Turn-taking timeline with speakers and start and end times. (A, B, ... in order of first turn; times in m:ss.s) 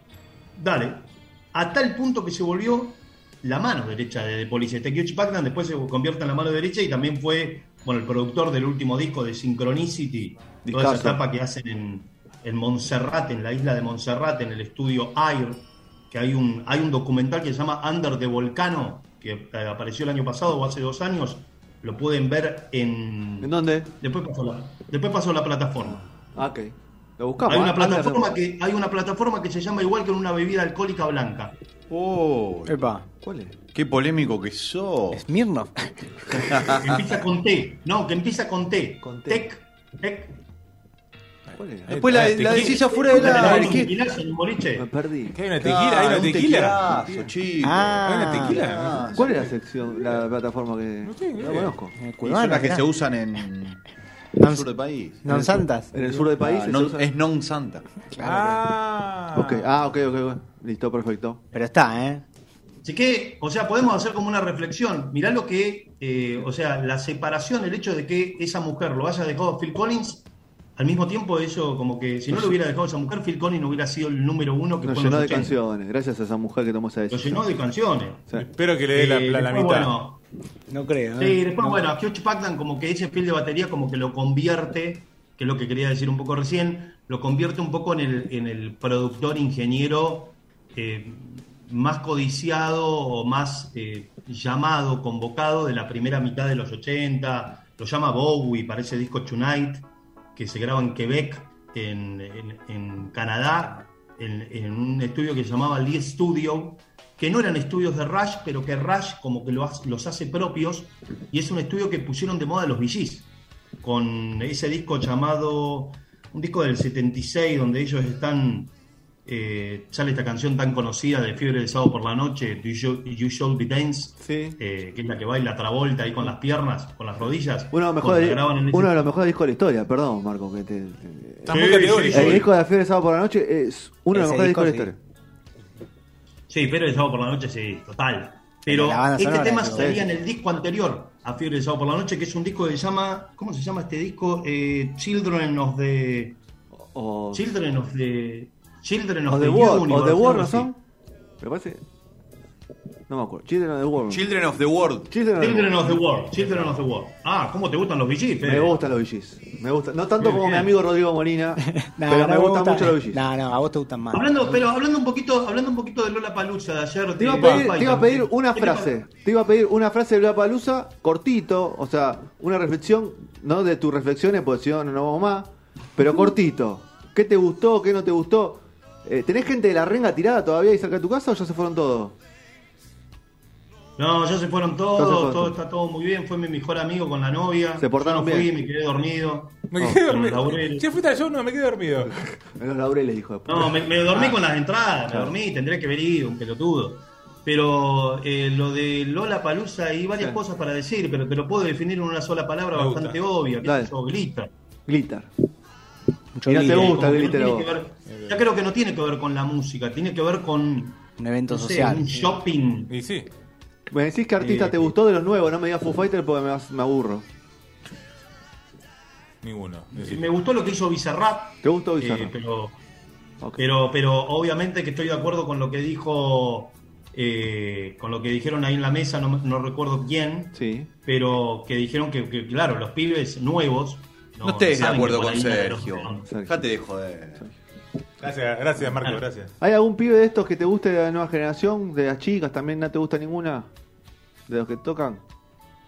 0:00.6-0:26.0 A
0:10.6-0:11.2 B
0:23.4-0:23.9 B
0:25.8-0:28.4 B
0:27.5-0:31.6 A
0:31.9-0:32.8 C
0:32.6-0:33.0 D
0:33.2-0:33.6 B
0:33.7-0:35.2 C
0:35.1-0:36.1 D
0:36.4-0:36.8 C
0:36.8-0:40.4 A
0:39.0-0:39.5 B
0:41.5-0:43.9 B
0:41.9-0:43.8 E
0:41.9-0:43.9 C
0:42.8-0:44.9 A
0:44.7-0:45.4 B
0:45.3-0:46.9 E
0:45.6-0:49.5 C
0:46.9-0:47.3 B
0:47.6-0:48.6 D
0:48.0-0:49.1 E
0:49.1-0:51.9 B
0:51.0-0:51.8 E
0:52.0-0:52.9 D
0:52.2-0:53.8 C
0:54.4-0:54.7 D
0:54.4-0:57.9 C
0:55.2-0:55.9 D
0:55.3-0:57.1 B
0:58.1-0:58.6 D
0:58.2-0:59.7 E
0:59.3-1:01.4 B
1:01.5-1:02.2 D
1:02.8-1:15.5 A
1:14.8-1:17.5 B
1:17.1-1:18.3 A
1:18.3-1:19.9 E
1:18.9-1:20.2 A
1:20.7-1:21.8 D
1:21.2-1:53.3 A
1:53.8-1:58.7 A
1:59.2-2:09.0 A
2:04.2-2:04.6 B
2:07.7-2:15.0 B
2:11.4-2:12.5 E
2:11.5-2:12.5 A
2:14.1-2:14.9 D
2:16.5-2:26.4 A
2:18.6-2:20.0 D
2:19.7-2:20.1 B
2:26.7-2:27.4 B
2:27.3-2:30.7 A
2:29.3-2:30.8 B
2:31.4-2:31.8 B
2:33.1-2:34.3 B
2:34.1-2:35.1 C
2:35.1-2:36.8 B
2:35.4-2:38.8 A
2:38.4-2:43.2 B
2:40.2-2:40.7 A
2:41.6-2:44.6 D
2:44.1-2:48.9 A
2:47.2-3:02.2 B
2:47.4-2:48.0 E
3:04.0-3:10.9 A
3:04.9-3:05.6 B
3:07.8-3:08.5 B
3:09.7-3:12.2 E
3:12.2-3:14.4 B
3:13.4-3:24.5 A
3:15.1-3:15.3 B
3:20.2-3:20.4 B
3:22.7-3:23.2 E
3:23.6-3:23.9 B
3:24.9-3:25.3 B
3:26.3-3:26.9 D
3:26.4-3:27.7 B
3:26.5-3:32.9 A
3:28.1-3:28.4 E
3:31.2-3:32.3 D
3:32.9-3:33.3 E
3:33.9-3:37.2 B
3:39.4-3:40.2 E
3:39.9-3:42.8 A
3:41.6-3:42.3 B
3:43.6-3:50.5 A
3:50.5-3:50.9 B
3:51.0-3:56.3 A
3:54.4-3:57.5 C
3:56.3-3:56.6 B
3:58.2-3:59.5 E
3:59.6-4:03.7 B
4:04.5-4:05.2 B